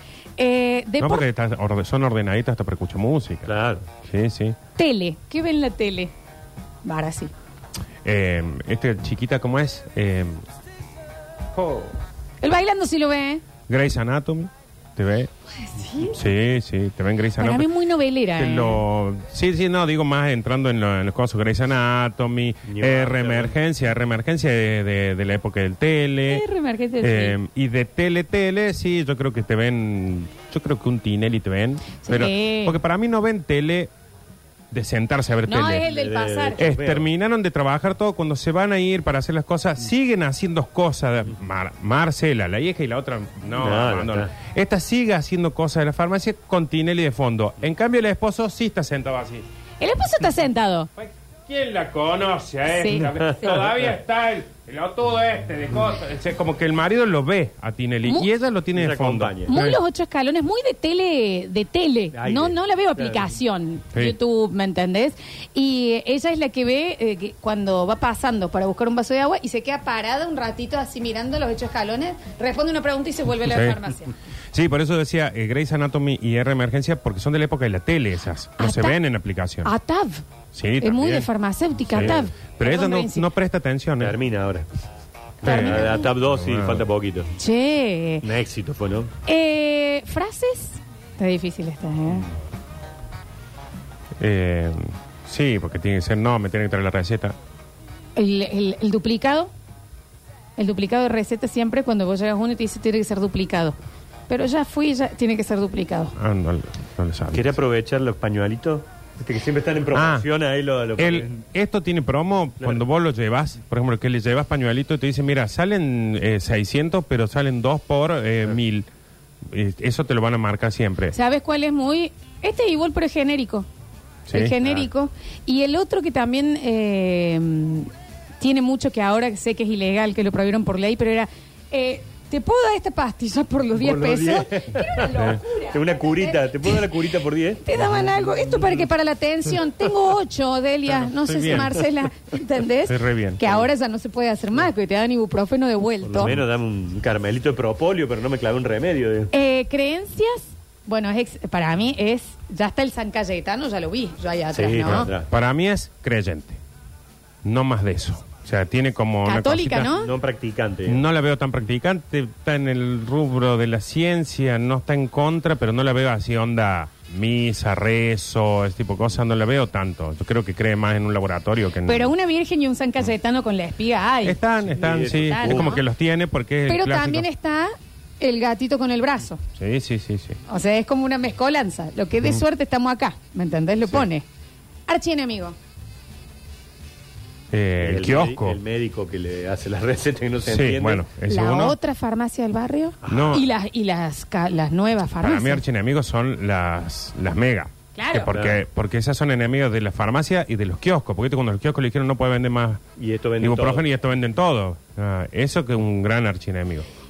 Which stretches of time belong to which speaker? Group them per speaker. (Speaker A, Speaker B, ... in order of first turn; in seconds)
Speaker A: 0.4-1.2, 4.8-6.1, 6.8-7.3, 12.4-13.4, 15.6-16.2, 17.4-18.8, 26.3-27.4, 32.0-32.8, 35.5-36.6, 49.8-50.9, 52.7-53.6, 59.5-74.1, 78.6-79.0, 79.6-80.2, 80.8-83.3, 85.4-86.1, 87.4-88.2, 89.2-92.2, 98.2-99.5, 100.6-103.8, 104.3-106.1, 121.1-123.7, 124.3-127.9, 128.4-137.0, 137.6-146.3, 149.3-155.1, 159.2-160.1, 171.8-174.4, 175.1-175.8, 176.7-179.4, 180.5-184.2, 184.9-185.5, 191.3-195.6, 197.9-198.3
Speaker B: 1.0-3.5, 4.0-4.6, 8.0-10.4, 11.5-11.9, 13.7-15.3, 16.1-17.7, 18.4-26.4, 27.0-33.9, 34.7-35.9, 36.6-49.5, 51.0-59.8, 73.5-73.8, 74.5-79.7, 80.5-81.3, 81.9-84.2, 85.4-86.9, 94.2-97.3, 106.1-107.6, 109.9-110.3, 111.0-118.9, 119.5-121.2, 124.3-124.6, 135.1-135.4, 141.2-141.8, 142.9-143.4, 154.8-156.6, 157.4-159.9, 160.9-172.1, 174.2-177.3, 179.5-180.4, 187.5-188.6, 190.4-191.8, 193.1-193.5, 195.2-202.8, 203.4-206.8
Speaker C: 3.5-3.9, 22.6-23.5, 35.8-37.0, 43.5-44.3, 53.1-53.7, 58.7-59.6, 62.1-63.2, 81.9-82.2, 84.0-84.8, 85.4-87.3, 88.2-89.1, 107.3-111.4, 133.8-137.8, 146.1-149.3, 154.5-155.3, 159.8-161.0, 174.7-175.8, 187.8-191.0, 193.0-193.4, 198.3-198.6, 203.0-203.8